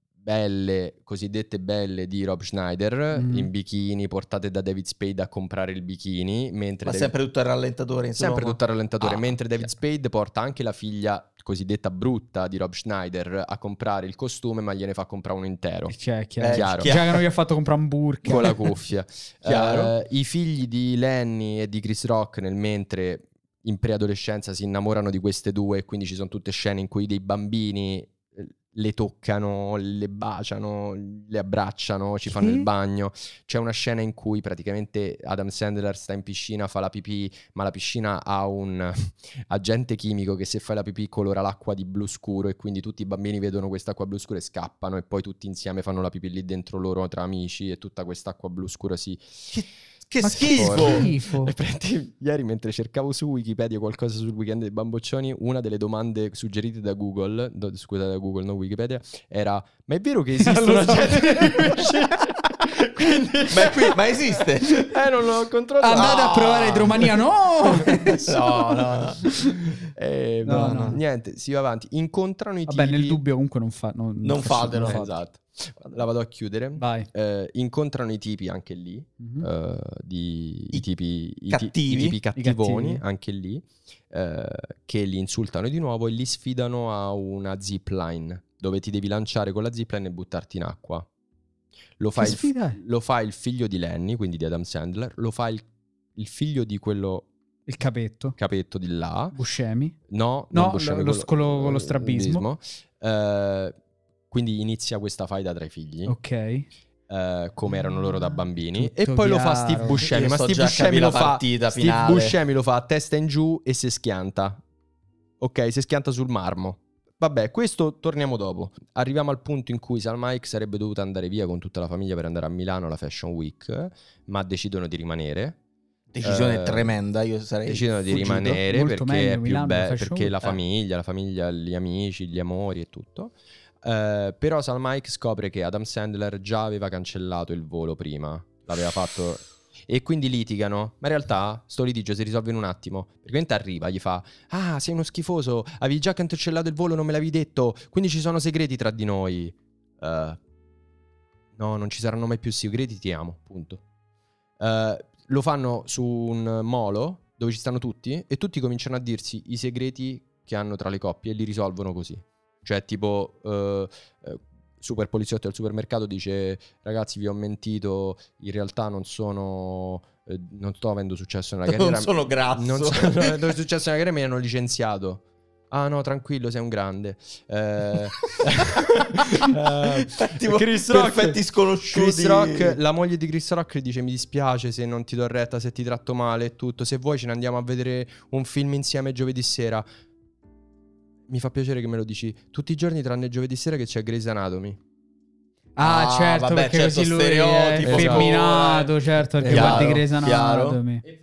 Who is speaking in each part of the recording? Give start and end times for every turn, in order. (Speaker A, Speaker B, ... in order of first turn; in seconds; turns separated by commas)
Speaker A: 0.2-7.1, Speaker B: 3.1-3.5, Speaker C: 6.8-9.4, Speaker A: 8.2-16.0, Speaker B: 15.9-18.7, Speaker C: 16.4-17.2, Speaker A: 16.5-17.0, Speaker A: 18.2-49.6, Speaker C: 19.4-19.9, Speaker B: 32.3-32.7, Speaker C: 50.1-51.1, Speaker B: 50.2-51.5, Speaker A: 50.3-67.1, Speaker B: 60.5-62.0, Speaker C: 63.5-64.9, Speaker B: 65.8-68.4, Speaker C: 65.9-67.2, Speaker A: 67.6-73.2, Speaker C: 67.8-69.3, Speaker B: 70.4-71.0, Speaker C: 70.5-71.0, Speaker B: 72.7-75.1, Speaker C: 74.2-75.2, Speaker A: 74.8-91.1, Speaker B: 76.8-77.1, Speaker B: 79.2-79.5, Speaker C: 81.5-82.2, Speaker B: 82.4-83.0, Speaker A: 92.0-97.3, Speaker B: 92.2-92.8, Speaker B: 97.7-98.4, Speaker A: 98.4-99.4, Speaker B: 99.3-100.0, Speaker A: 100.1-103.8, Speaker B: 100.5-102.4, Speaker A: 104.3-106.2, Speaker B: 106.1-106.7, Speaker A: 107.1-114.6, Speaker B: 107.7-110.1, Speaker C: 110.0-112.4, Speaker A: 115.4-125.6, Speaker C: 126.1-128.5, Speaker A: 126.2-127.0, Speaker A: 127.7-150.4, Speaker B: 128.1-130.4, Speaker A: 151.6-153.8, Speaker A: 154.6-189.8, Speaker C: 171.7-173.4, Speaker C: 179.8-182.8, Speaker A: 191.3-194.8, Speaker B: 195.8-201.1, Speaker C: 195.8-200.8, Speaker A: 197.8-198.4, Speaker A: 199.4-200.0